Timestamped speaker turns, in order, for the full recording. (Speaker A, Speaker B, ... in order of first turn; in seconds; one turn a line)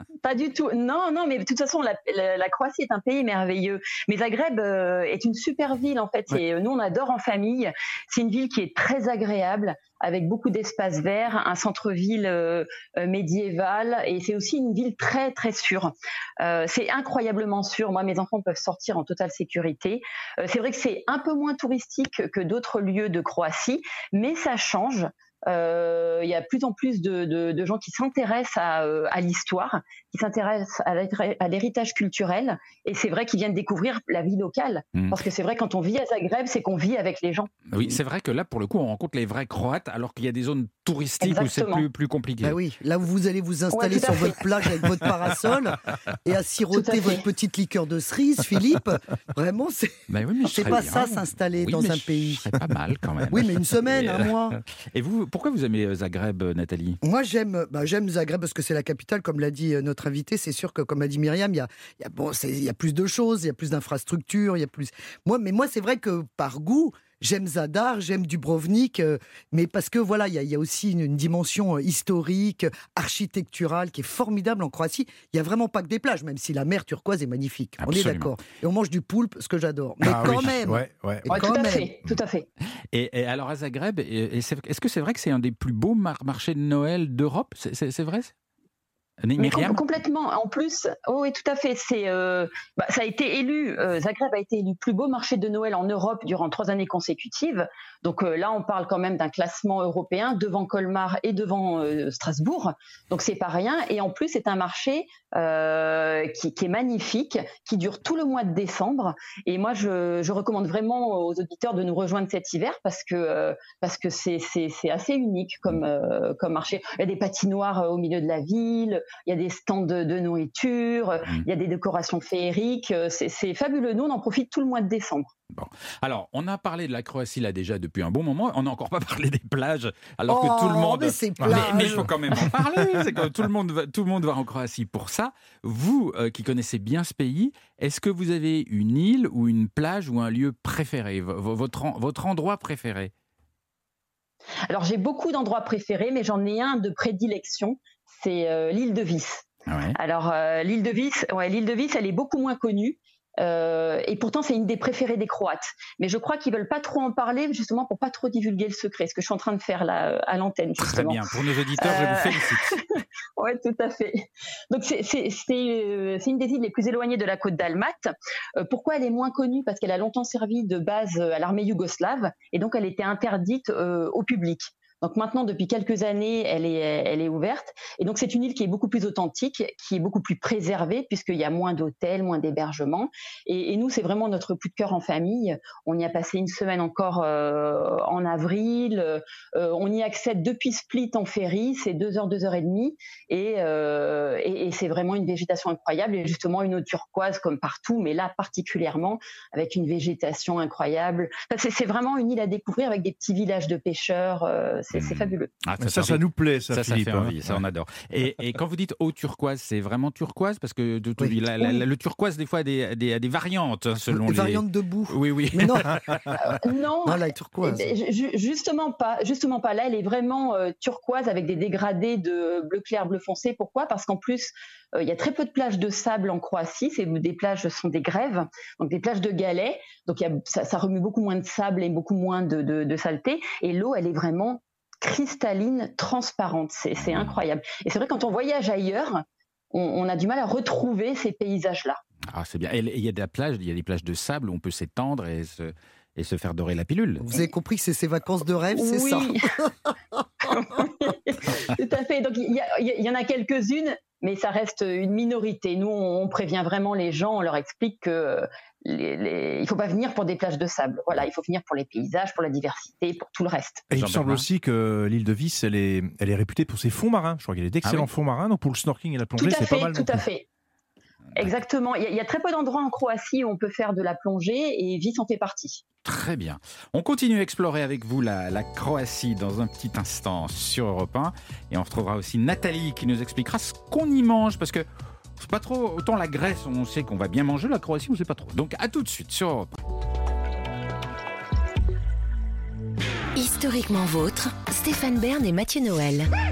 Speaker A: 0.2-37.5
Speaker B: 37.7-42.6
Speaker A: 41.2-41.8
Speaker C: 42.4-52.5
Speaker A: 43.7-44.4
Speaker A: 46.7-47.2
Speaker B: 50.1-57.0
Speaker C: 53.3-54.6
Speaker C: 57.0-81.9
Speaker B: 77.8-78.3
Speaker D: 80.0-81.3
Speaker A: 81.3-82.5
Speaker B: 82.9-88.3
Speaker B: 89.2-89.8
Speaker A: 89.4-125.3
Speaker B: 125.5-143.1
Speaker C: 130.3-132.1
Speaker D: 131.4-132.1
Speaker A: 144.7-162.8
Speaker B: 149.7-150.0
Speaker B: 160.8-162.8
Speaker A: 163.4-205.5
Speaker B: 204.9-216.3
Speaker D: 205.8-207.6
Speaker C: 214.1-216.0
Speaker A: 216.4-242.0
Speaker C: 217.0-217.9
Speaker B: 237.0-237.4
Speaker B: 242.3-247.2
Speaker C: 247.2-249.7
Speaker A: 248.7-249.5
Speaker A: 250.4-263.8
Speaker D: 263.9-270.2
Speaker B: 263.9-264.4
Speaker B: 267.8-268.1
Speaker A: 269.4-270.4
Speaker A: 271.4-275.8
Speaker B: 276.0-289.7
Speaker E: 293.3-296.3